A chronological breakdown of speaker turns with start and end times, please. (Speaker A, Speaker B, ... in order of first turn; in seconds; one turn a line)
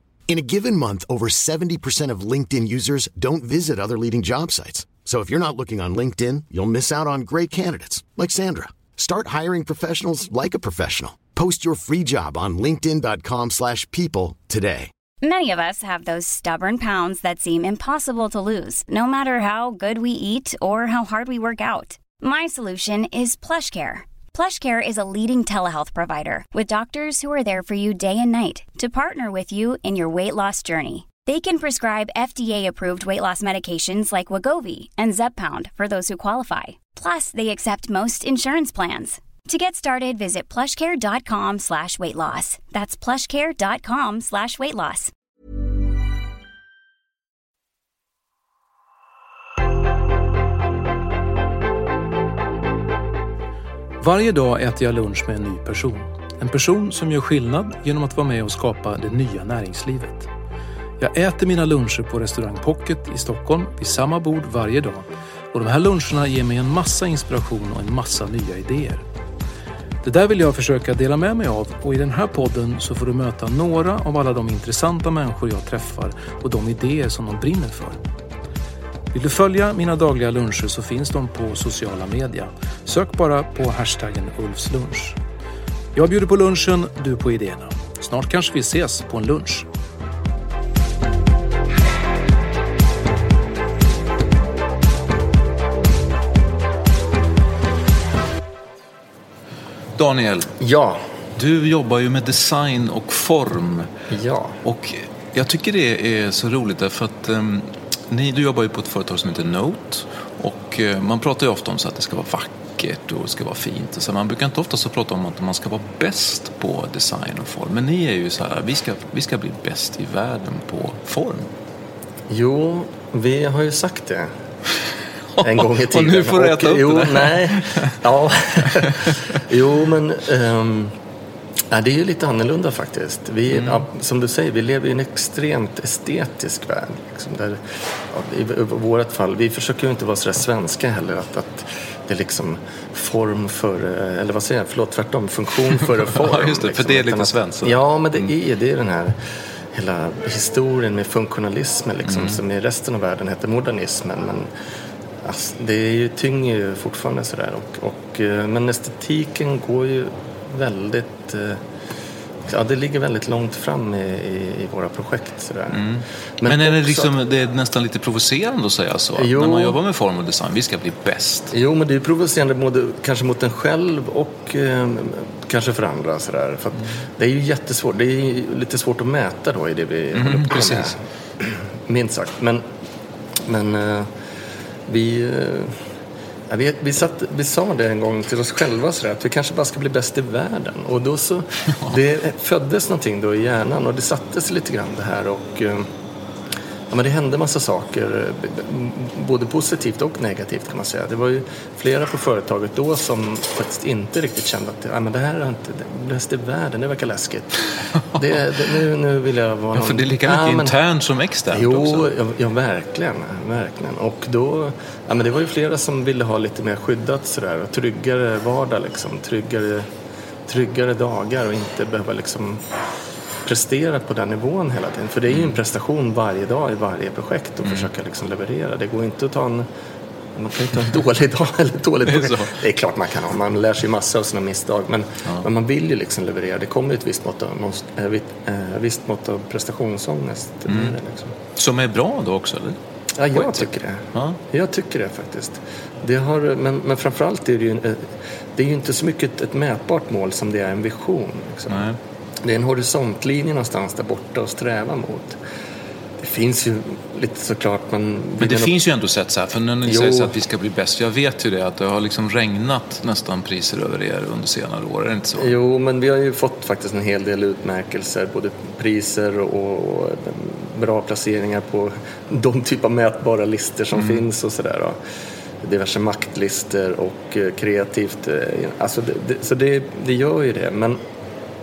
Speaker A: 0.3-14.9
Speaker B: 15.2-45.1
Speaker C: 54.0-60.3
Speaker C: 61.0-69.0
Speaker C: 70.0-78.0
Speaker C: 79.1-85.2
Speaker C: 86.0-89.7
Speaker D: 100.0-100.5
Speaker E: 100.6-101.0
Speaker D: 101.4-103.9
Speaker E: 104.1-104.6
Speaker D: 104.6-121.5
Speaker E: 122.3-124.3
Speaker D: 125.3-127.9
Speaker E: 125.4-130.9
Speaker E: 131.7-137.6
Speaker D: 133.5-133.8
Speaker E: 138.1-149.2
Speaker D: 146.2-148.3
Speaker E: 149.7-154.5
Speaker D: 152.1-152.4
Speaker E: 155.2-161.6
Speaker E: 162.5-165.8
Speaker D: 165.7-171.5
Speaker E: 166.4-167.1
Speaker E: 169.2-169.8
Speaker E: 171.5-182.6
Speaker D: 180.2-180.9
Speaker E: 183.5-184.1
Speaker E: 184.9-185.8
Speaker E: 186.5-195.9
Speaker E: 196.9-207.6
Speaker E: 208.1-210.8
Speaker D: 209.7-212.1
Speaker E: 211.5-219.9
Speaker E: 220.5-222.6
Speaker E: 223.4-229.7
Speaker D: 225.3-225.6
Speaker E: 230.4-241.3
Speaker D: 232.1-232.5
Speaker D: 240.7-240.9
Speaker D: 241.6-242.8
Speaker E: 243.2-251.8
Speaker D: 243.3-244.4
Speaker D: 251.7-252.0
Speaker E: 252.4-255.4
Speaker E: 256.2-258.8
Speaker D: 258.4-265.5
Speaker E: 259.9-260.4
Speaker E: 265.4-275.0
Speaker D: 273.9-274.2
Speaker E: 275.6-281.0